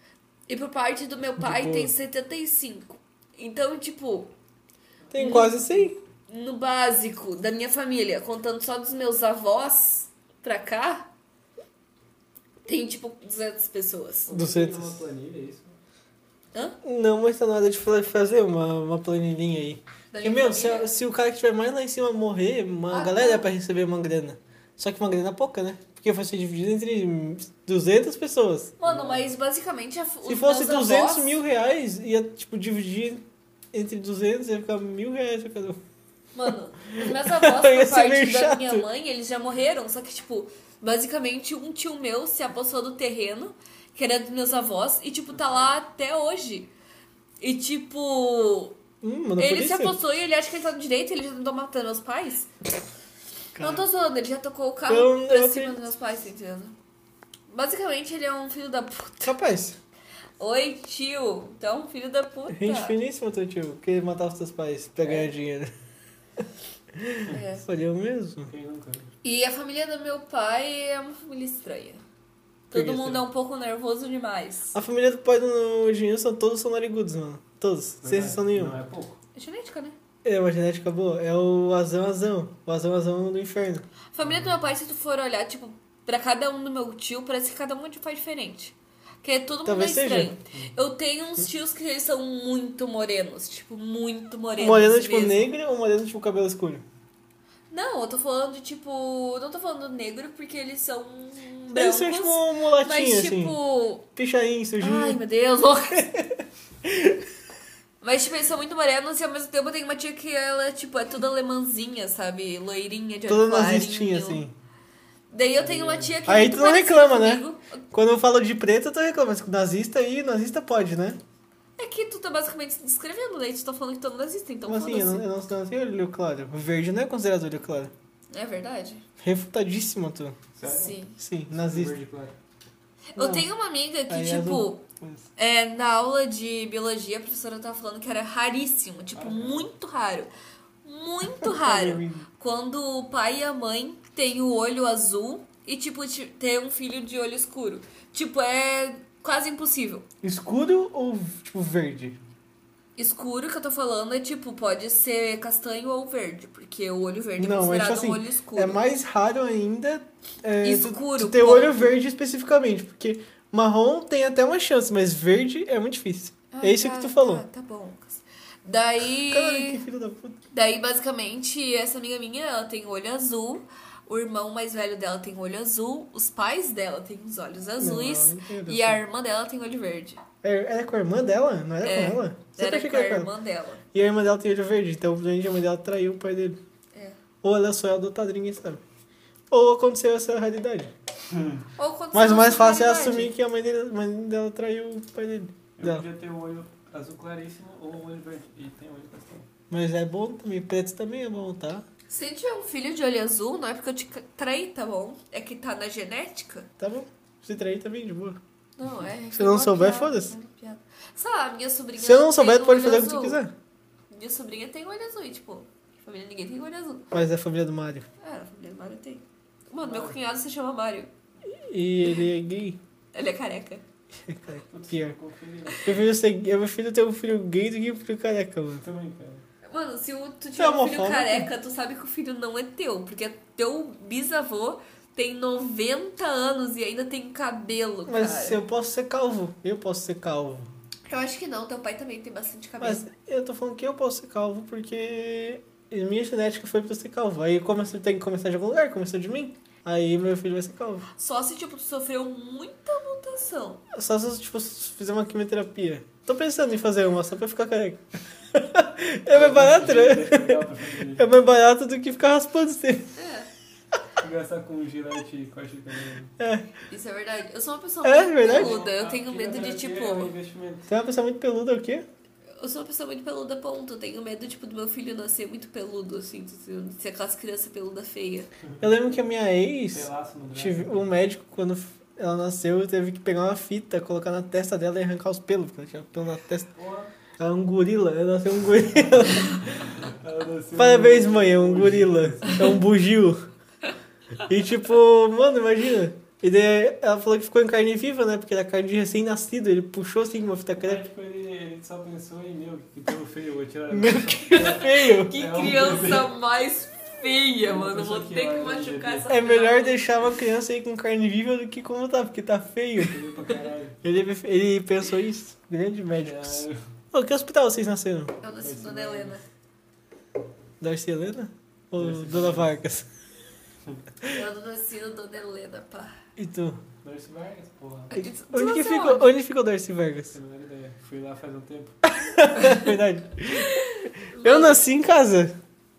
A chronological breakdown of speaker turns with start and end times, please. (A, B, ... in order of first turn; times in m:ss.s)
0:00.5-0:04.3 A
0:01.4-0:01.9 B
0:05.0-0:05.5 C
0:05.1-0:06.0 B
0:05.2-0:05.6 A
0:06.3-0:11.1 A
0:12.7-0:14.3 A
0:14.3-0:15.7 C
0:14.3-0:15.0 B
0:16.8-0:28.7 B
0:20.1-0:20.9 A
0:22.9-0:23.5 A
0:28.8-0:31.3 A
0:28.8-0:29.3 C
0:30.2-0:35.8 B
0:36.3-0:46.7 A
0:36.9-0:38.9 B
0:47.4-0:48.8 A
0:49.0-0:50.0 B
0:49.4-0:52.5 A
0:53.6-0:53.8 B
0:53.6-0:56.8 A
0:54.9-0:55.8 B
0:57.5-0:59.3 A
0:59.2-0:59.8 B
1:00.4-1:03.0 A
1:02.5-1:05.7 B
1:06.9-1:08.5 B
1:07.3-1:07.6 A
1:08.5-1:09.1 C
1:09.2-1:12.0 A
1:12.7-1:14.8 A
1:12.7-1:13.2 B
1:14.7-1:18.8 B
1:18.0-1:19.2 C
1:19.4-1:20.0 A
1:20.2-1:23.8 B
1:24.1-1:35.5 A
1:24.2-1:24.5 C
1:29.6-1:30.3 B
1:34.6-1:36.8 B
1:37.7-1:44.1 A
1:41.7-1:43.6 B
1:44.2-1:45.2 B
1:44.8-1:46.1 A
1:46.8-1:47.2 B
1:48.0-1:54.4 A
1:53.3-1:54.5 B
1:55.3-1:57.8 A
1:55.6-1:56.2 C
1:56.3-2:01.2 B
2:01.8-2:05.2 A
2:04.7-2:07.9 B
2:08.3-2:09.0 A
2:09.2-2:10.4 B
2:10.6-2:11.0 C
2:10.6-2:11.2 A
2:11.2-2:12.0 B
2:11.5-2:12.4 C
2:13.1-2:14.8 A
2:13.2-2:13.5 B
2:14.1-2:15.2 B
2:15.4-2:20.3 A
2:19.2-2:19.7 C
2:20.8-2:30.1 A
2:21.4-2:22.3 B
2:30.2-2:32.2 B
2:33.0-2:38.8 A
2:37.4-2:47.5 B
2:40.6-2:41.9 A
2:46.5-2:49.8 A
2:49.3-2:50.4 B
2:50.5-3:00.2 A
2:57.8-2:59.0 B
3:00.4-3:03.3 B
3:01.8-3:03.8 A
3:03.9-3:06.6 B
3:07.4-3:08.8 B
3:09.5-3:10.9 B
3:11.3-3:11.6 C
3:11.8-3:13.3 A
3:12.1-3:16.0 B
3:15.8-3:19.5 C
3:19.7-3:21.8 B
3:22.1-3:26.7 A
3:26.8-3:28.4 B
3:28.8-3:33.4 A
3:29.3-3:30.3 B
3:32.0-3:33.5 B
3:34.1-3:37.1 A
3:37.1-3:38.1 B
3:38.2-3:41.1 A
3:39.8-3:40.2 C
3:41.5-3:42.8 B
3:43.1-3:43.8 A
3:44.3-3:45.2 B
3:44.7-3:46.1 C
3:45.8-3:48.8 B
3:48.8-3:49.4 C
3:49.7-3:58.6 A
3:50.6-3:51.5 B
3:58.1-4:00.7 B
4:01.1-4:03.0 A
4:02.8-4:11.1 B
4:11.2-4:13.8 A
4:13.9-4:23.1 B
4:19.3-4:21.3 C
4:23.2-4:23.5 A
4:24.2-4:26.3 C
4:26.4-4:26.7 B
4:26.9-4:30.3 A
4:28.0-4:28.8 B
4:28.4-4:30.9 C
4:30.9-4:32.0 B
4:32.6-4:38.5 A
4:38.8-4:46.7 B
4:39.9-4:41.1 C
4:46.8-4:47.1 C
4:47.4-4:49.9 B
4:49.1-4:52.8 C
4:50.8-4:53.4 B
4:54.4-5:01.0 B
5:00.8-5:06.3 C
5:03.9-5:05.4 B
5:05.0-5:10.0 A
5:07.6-5:09.4 C
5:09.3-5:13.2 B
5:13.0-5:14.0 C
5:14.0-5:18.4 B
5:16.2-5:16.8 C
5:18.4-5:19.4 A
5:18.6-5:19.4 C
5:20.8-5:23.1 B
5:22.0-5:22.7 C
5:24.3-5:26.2 A
5:26.4-5:26.8 B
5:27.0-5:28.1 C
5:28.1-5:29.3 A
5:28.1-5:30.3 B
5:30.3-5:32.0 C
5:32.1-5:35.6 B
5:32.5-5:32.9 A
5:33.5-5:34.8 A